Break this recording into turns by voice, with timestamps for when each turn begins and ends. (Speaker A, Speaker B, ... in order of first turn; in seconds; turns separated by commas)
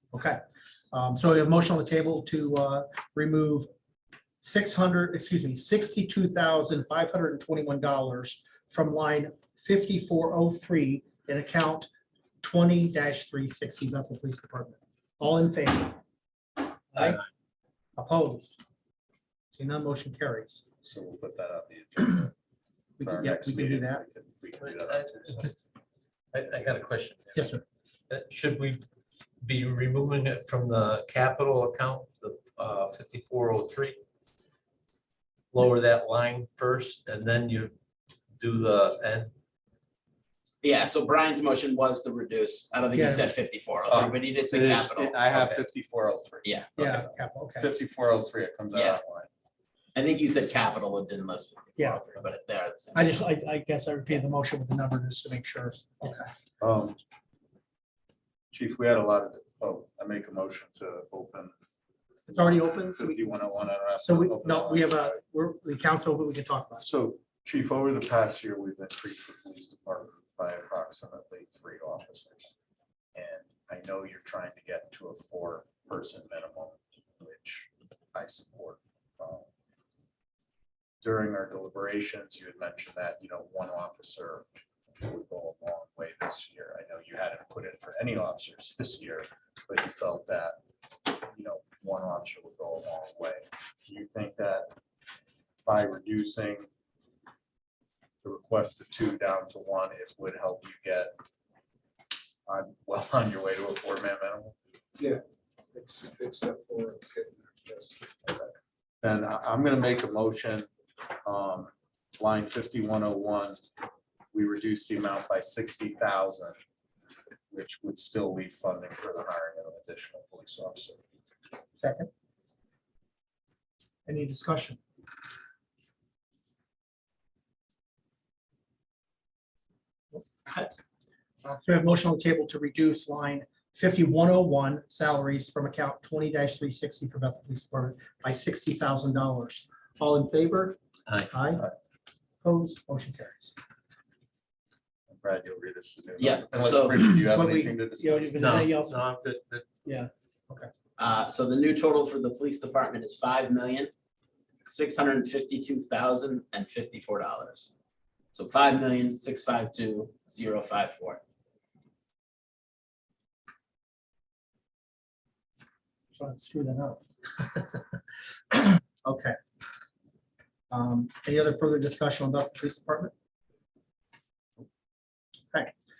Speaker A: 0.1-0.4, Speaker A: 0.9-3.7, Speaker A: 4.4-11.9, Speaker A: 12.4-16.0, Speaker A: 16.9-17.2, Speaker A: 18.0-18.6, Speaker A: 19.5-20.6, Speaker B: 20.8-22.3, Speaker A: 23.0-24.0, Speaker B: 23.0-25.5, Speaker C: 24.6-25.6, Speaker C: 26.3-27.5, Speaker A: 27.3-27.6, Speaker C: 28.1-28.8, Speaker C: 29.4-34.0, Speaker C: 35.5-37.7, Speaker C: 38.4-39.3, Speaker D: 40.6-45.2, Speaker A: 42.9-43.2, Speaker B: 43.9-49.3, Speaker C: 45.3-45.6, Speaker D: 46.4-46.7, Speaker A: 46.8-47.7, Speaker D: 48.7-49.0, Speaker D: 49.9-53.3, Speaker A: 51.8-52.0, Speaker A: 52.9-56.3, Speaker B: 56.6-57.0, Speaker B: 58.5-61.5, Speaker B: 62.3-65.1, Speaker A: 62.3-63.3, Speaker A: 64.0-66.8, Speaker B: 66.8-72.5, Speaker B: 73.1-79.5, Speaker B: 81.0-84.5, Speaker B: 85.0-94.7, Speaker B: 95.6-96.7, Speaker B: 98.2-101.1, Speaker B: 102.5-104.5, Speaker E: 105.7-108.4, Speaker B: 109.0-110.7, Speaker B: 111.2-113.6, Speaker B: 114.3-116.6, Speaker B: 117.5-121.0, Speaker A: 121.8-122.1, Speaker A: 124.1-124.8, Speaker A: 130.1-130.7, Speaker A: 131.4-140.8, Speaker A: 141.3-141.6, Speaker A: 142.4-143.5, Speaker B: 145.1-148.6, Speaker D: 146.2-147.0, Speaker A: 147.0-149.0, Speaker C: 148.4-149.7, Speaker A: 149.8-150.7, Speaker D: 151.0-153.9, Speaker D: 154.6-157.7, Speaker D: 158.3-161.2, Speaker A: 166.1-167.8, Speaker A: 168.5-169.3, Speaker A: 170.7-173.1